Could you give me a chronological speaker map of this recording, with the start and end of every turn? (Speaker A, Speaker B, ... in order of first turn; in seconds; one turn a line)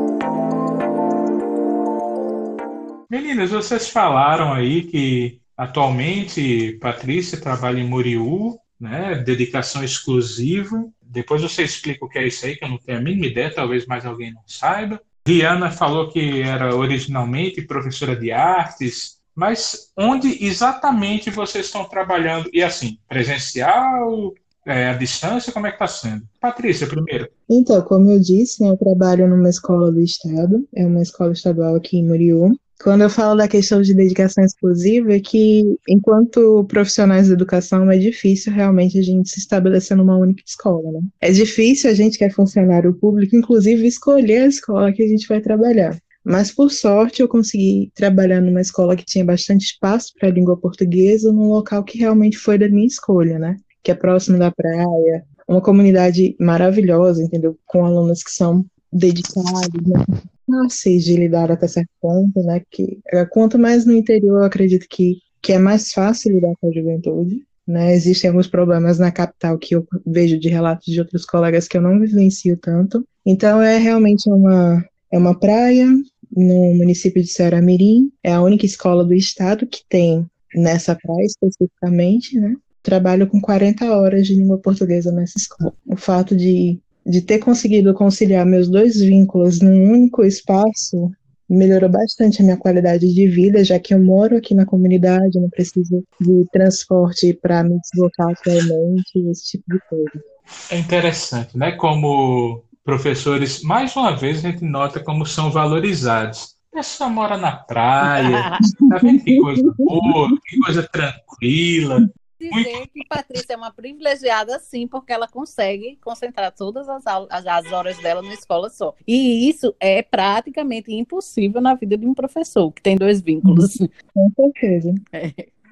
Speaker A: 3.1-27.3
Speaker B: 27.5-100.2
Speaker A: 100.7-112.9
Speaker C: 108.0-108.7
Speaker B: 108.8-110.1
Speaker C: 112.4-123.9
Speaker B: 123.4-125.0
Speaker C: 125.1-125.5